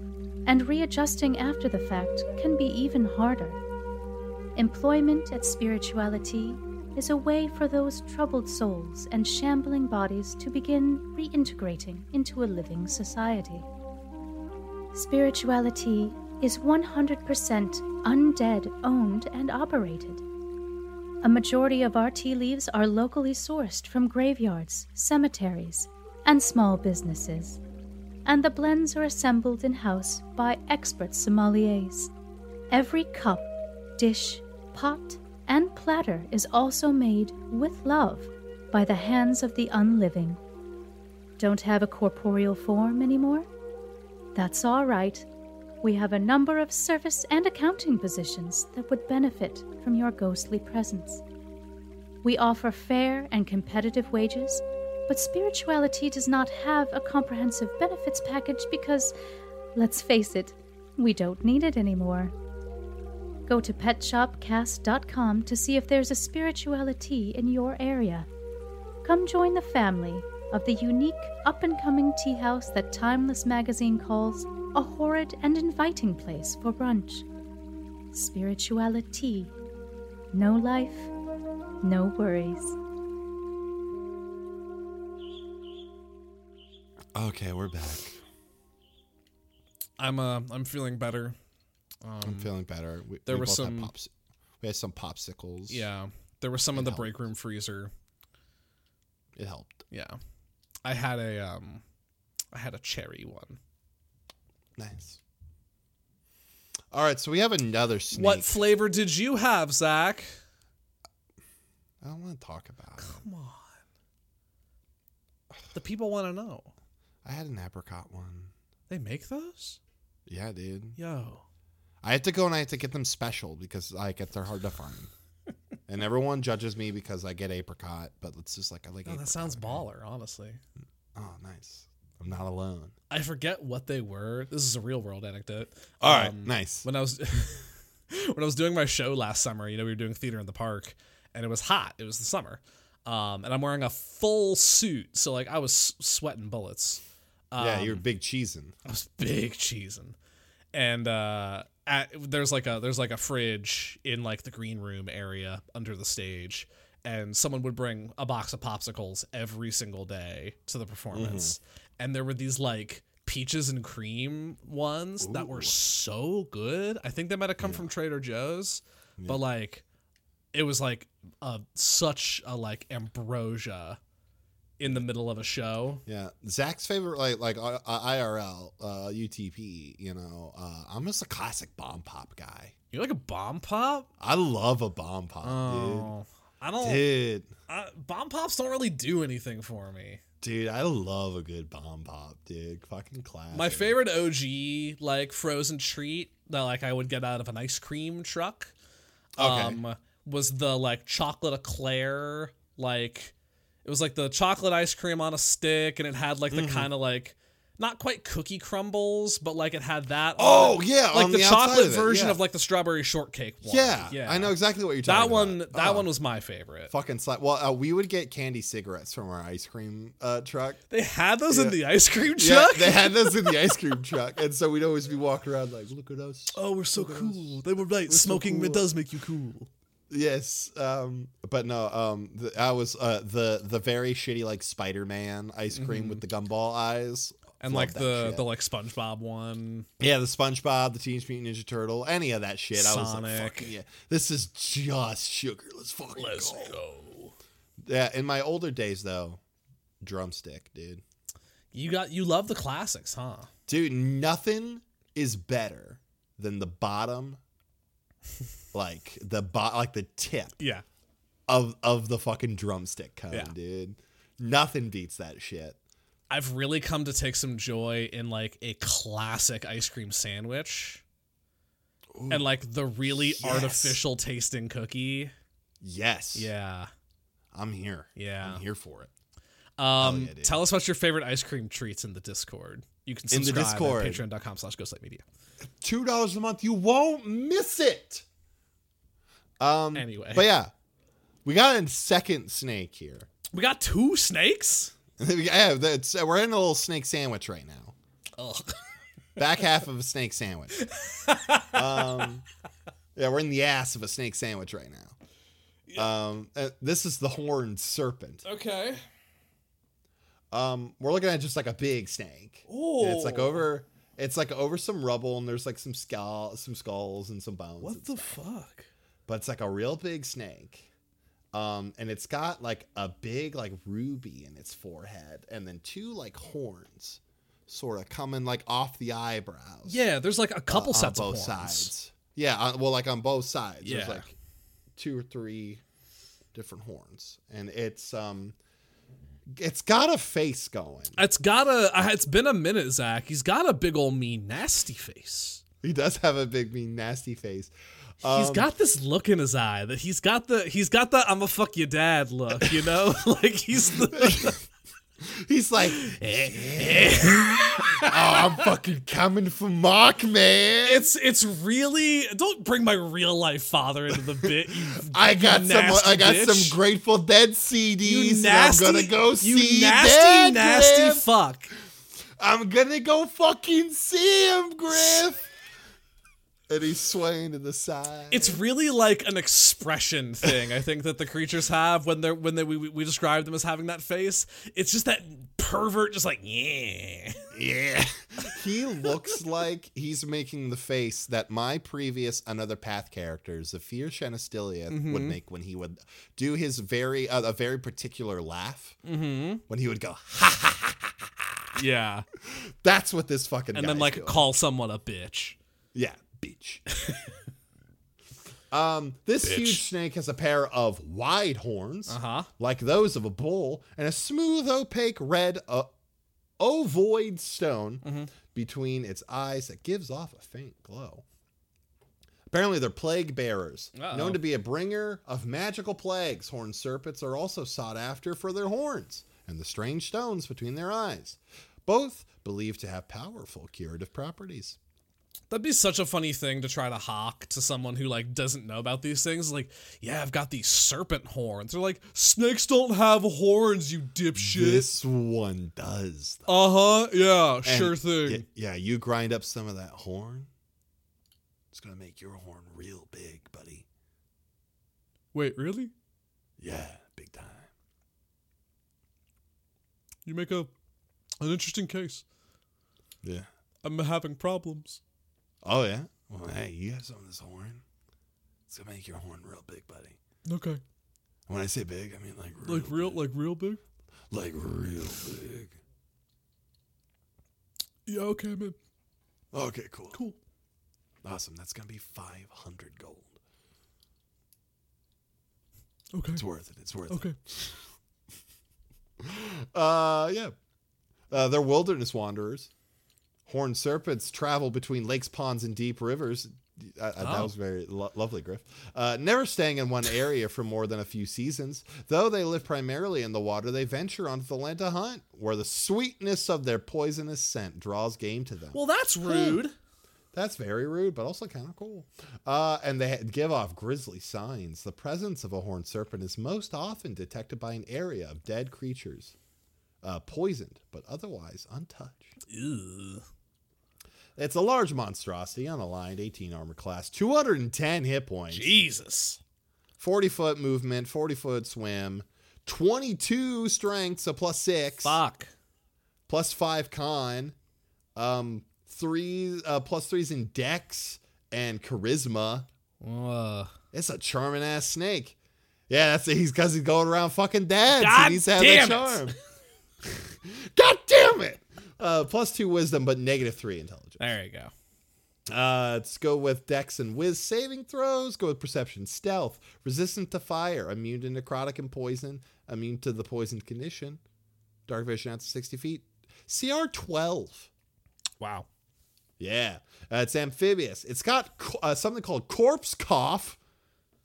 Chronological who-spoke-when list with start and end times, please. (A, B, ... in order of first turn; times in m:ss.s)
0:00.5-0:03.6 A
0:04.6-0:13.7 A
0:14.9-0:20.2 A
0:21.2-0:27.6 A
0:28.2-0:32.1 A
0:32.7-0:40.4 A
0:41.4-0:43.5 A
0:44.4-0:45.3 A
0:45.8-0:51.2 A
0:52.2-0:59.1 A
0:59.8-1:02.3 A
1:03.5-1:08.3 A
1:09.0-1:17.3 A
1:18.1-1:19.5 A
1:20.3-1:21.1 A
1:21.8-1:22.8 A
1:27.2-1:28.2 B
1:30.0-1:31.4 C
1:32.0-1:32.5 C
1:32.2-1:35.8 B
1:33.3-1:33.9 C
1:35.7-1:37.9 C
1:36.7-1:37.1 B
1:39.4-1:39.8 B
1:39.9-1:40.2 C
1:40.8-1:41.8 C
1:42.5-1:43.6 C
1:44.8-1:45.2 B
1:46.9-1:48.6 B
1:48.1-1:50.4 C
1:52.0-1:53.2 B
1:53.0-1:53.8 C
1:55.7-1:56.7 C
1:57.2-1:58.5 B
1:58.9-1:59.8 C
2:00.3-2:01.0 B
2:01.0-2:01.4 C
2:02.0-2:05.1 B
2:05.9-2:09.8 B
2:09.1-2:10.6 C
2:11.2-2:12.9 B
2:13.1-2:28.0 C
2:16.0-2:16.9 B
2:27.6-2:28.7 B
2:28.9-2:30.2 C
2:30.7-2:49.8 C
2:41.1-2:41.6 B
2:45.2-2:45.8 B
2:47.6-2:47.9 B
2:50.5-2:54.0 C
2:54.8-2:56.0 C
2:56.1-3:02.7 B
3:02.9-3:04.1 C
3:04.2-3:06.1 B
3:05.4-3:07.1 C
3:06.8-3:07.5 B
3:07.7-3:10.2 C
3:10.4-3:14.0 B
3:13.5-3:18.7 C
3:19.4-3:19.8 B
3:19.4-3:23.3 C
3:23.8-3:36.9 C
3:26.5-3:26.9 B
3:30.4-3:32.4 B
3:33.6-3:36.1 B
3:36.9-3:40.8 B
3:40.9-3:43.7 C
3:41.5-3:41.8 B
3:42.4-3:48.9 B
3:46.5-3:49.7 C
3:50.1-3:58.4 B
3:55.7-3:56.2 C
3:57.6-3:59.9 C
4:00.0-4:06.8 B
4:02.7-4:03.7 C
4:06.2-4:07.3 C
4:07.8-4:09.4 B
4:10.0-4:11.0 B
4:11.7-4:13.5 C
4:13.7-4:17.4 B
4:18.7-4:20.6 B
4:20.6-4:20.8 C
4:21.5-4:25.8 B
4:26.3-4:31.0 C
4:32.1-4:34.0 B
4:32.3-4:35.3 C
4:35.8-4:36.5 B
4:36.4-4:36.9 C
4:37.5-4:39.1 B
4:38.2-4:38.6 C
4:39.8-4:45.2 C
4:40.0-4:40.6 B
4:43.3-4:44.2 B
4:45.6-4:48.2 B
4:49.6-4:50.7 B
4:50.0-4:50.5 C
4:51.4-4:53.3 B
4:53.5-4:54.9 C
4:55.2-4:58.0 B
4:58.4-4:58.8 C
4:59.4-5:00.8 B
5:00.8-5:02.2 C
5:01.7-5:02.4 B
5:03.2-5:05.2 B
5:06.0-5:08.4 B
5:08.4-5:09.0 C
5:10.5-5:18.4 B
5:12.7-5:13.7 C
5:17.8-5:18.9 C
5:19.3-5:20.9 B
5:21.5-5:30.0 B
5:29.9-5:31.9 C
5:30.7-5:34.3 B
5:33.8-5:34.2 C
5:35.0-5:35.8 B
5:36.5-5:38.6 B
5:39.5-5:41.2 B
5:41.2-5:45.6 C
5:45.8-5:48.7 B
5:48.2-5:54.6 C
5:54.1-5:54.6 B
5:55.2-6:01.1 B
5:55.9-5:58.5 C
6:00.8-6:06.8 C
6:04.4-6:11.3 B
6:08.0-6:11.7 C
6:12.4-6:15.5 B
6:16.7-6:18.6 B
6:18.3-6:27.5 C
6:27.5-6:39.0 B
6:34.9-6:35.4 C
6:39.0-6:39.6 C
6:39.7-6:41.8 B
6:41.8-6:42.3 C
6:42.4-6:44.5 B
6:43.7-6:45.6 C
6:45.9-6:46.9 B
6:48.7-6:55.9 B
6:49.4-6:49.8 C
6:52.1-6:52.5 C
6:56.6-7:01.2 B
6:58.0-6:58.3 C
7:02.5-7:14.8 B
7:04.0-7:04.4 C
7:15.5-7:24.9 C
7:24.4-7:26.5 B
7:26.5-7:28.4 C
7:27.6-7:30.5 B
7:31.7-7:33.9 B
7:35.3-7:35.9 C
7:36.6-7:37.7 B
7:40.3-7:40.7 C
7:41.4-7:42.2 C
7:43.8-7:45.0 C
7:45.6-7:47.8 B
7:48.7-7:50.2 B
7:50.5-7:50.8 C
7:51.5-7:53.2 B
7:52.6-7:53.8 C
7:54.3-7:55.8 B
7:58.1-7:58.8 C
7:59.5-8:00.2 B
8:00.1-8:00.4 C
8:01.2-8:03.4 B
8:06.1-8:06.4 C
8:06.4-8:07.9 B
8:07.1-8:07.4 C
8:09.2-8:10.6 B
8:11.3-8:12.7 B
8:13.5-8:29.6 B
8:17.2-8:17.5 C
8:28.7-8:29.7 C
8:30.3-8:39.4 B
8:40.0-8:42.3 B
8:42.5-8:43.2 C
8:44.4-8:48.7 B
8:48.5-8:49.4 C
8:50.0-8:55.2 B
8:55.0-8:55.5 C
8:56.3-8:57.6 B
8:58.2-9:02.7 B
9:03.0-9:03.7 C
9:03.9-9:05.4 B
9:05.9-9:09.4 B
9:07.9-9:09.3 C
9:10.0-9:14.2 B
9:14.2-9:14.7 C
9:15.5-9:24.2 B
9:24.9-9:27.7 B
9:28.4-9:28.7 C
9:29.4-9:33.6 B